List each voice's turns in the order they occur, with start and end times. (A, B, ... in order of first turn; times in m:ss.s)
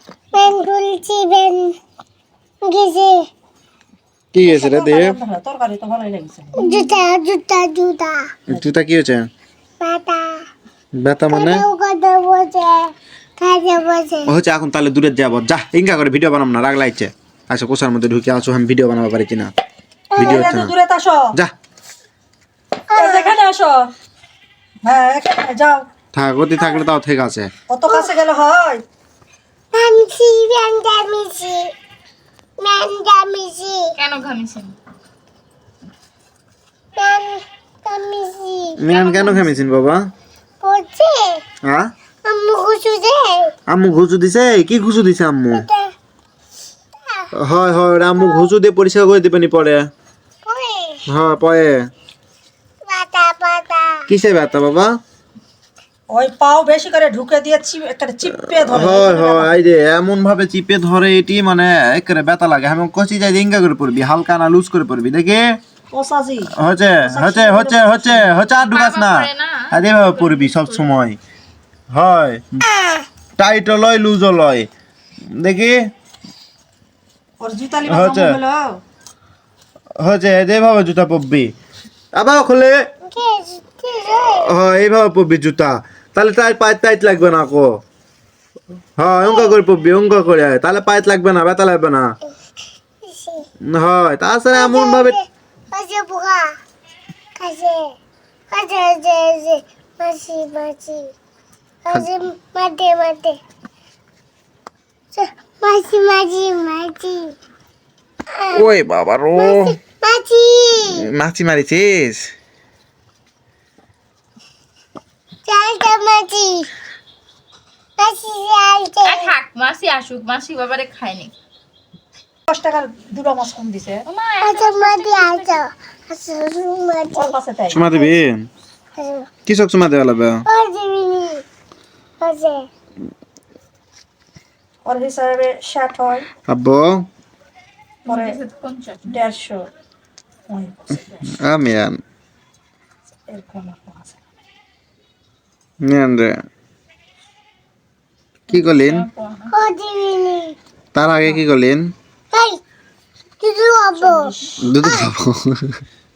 0:00.3-0:01.8 A
0:02.6-0:03.3 A
0:04.3-0:05.2 B
0:04.4-0:06.9 C
0:06.6-0:08.3 A
0:08.5-0:09.3 B
0:09.8-0:10.4 A
0:11.0-0:11.6 B
0:11.3-0:14.3 A
0:14.3-0:19.5 B
0:20.1-0:20.5 A
0:20.2-0:21.3 C
0:20.2-0:20.7 B
0:22.9-0:23.4 A
0:22.9-0:23.9 C
0:24.8-0:25.9 C
0:26.1-0:27.5 B
0:27.7-0:28.8 C
0:29.7-0:31.7 A
0:32.6-0:33.9 A
0:34.0-0:34.8 D
0:37.0-0:38.8 A
0:38.8-0:40.0 B
0:38.9-0:39.6 D
0:40.6-0:41.4 A
0:41.6-0:41.9 B
0:42.2-0:43.5 A
0:43.7-0:45.7 B
0:45.5-0:45.9 A
0:47.0-0:47.3 A
0:47.4-0:49.9 B
0:48.2-0:48.5 A
0:50.4-0:51.0 A
0:51.1-0:51.9 B
0:52.9-0:54.1 A
0:54.1-0:55.0 B
0:56.1-0:59.6 C
0:58.3-1:05.6 B
1:05.9-1:06.5 C
1:06.6-1:11.2 B
1:07.0-1:08.3 C
1:08.7-1:10.9 D
1:11.9-1:12.6 B
1:12.7-1:13.0 A
1:13.4-1:14.7 B
1:15.4-1:15.8 B
1:17.4-1:18.8 C
1:17.9-1:18.4 B
1:20.0-1:21.5 B
1:22.1-1:22.9 B
1:23.0-1:24.5 A
1:24.3-1:27.7 B
1:29.0-1:32.1 B
1:29.2-1:29.6 A
1:33.0-1:33.5 A
1:33.7-1:35.2 B
1:34.5-1:36.5 A
1:37.4-1:37.9 A
1:38.5-1:41.1 A
1:41.8-1:43.4 A
1:45.1-1:47.3 A
1:48.3-1:48.7 A
1:48.5-1:49.8 B
1:49.4-1:51.1 A
1:50.9-1:52.3 B
1:55.5-1:56.7 A
1:58.0-1:59.3 A
1:59.0-2:01.3 D
2:02.5-2:04.0 C
2:04.1-2:05.6 D
2:04.4-2:07.4 A
2:07.1-2:08.1 C
2:07.7-2:08.5 B
2:09.0-2:09.3 A
2:09.5-2:10.4 B
2:10.5-2:11.4 A
2:12.2-2:12.7 A
2:14.9-2:16.3 C
2:16.5-2:17.1 B
2:18.0-2:19.2 D
2:18.1-2:18.4 C
2:19.1-2:19.6 C
2:20.5-2:21.3 C
2:21.3-2:22.0 B
2:23.3-2:24.2 C
2:25.8-2:26.4 B
2:28.5-2:29.6 D
2:28.5-2:29.1 B
2:29.5-2:30.6 A
2:30.9-2:31.9 B
2:32.3-2:32.6 A
2:33.4-2:35.1 A
2:34.0-2:34.6 C
2:34.6-2:35.8 B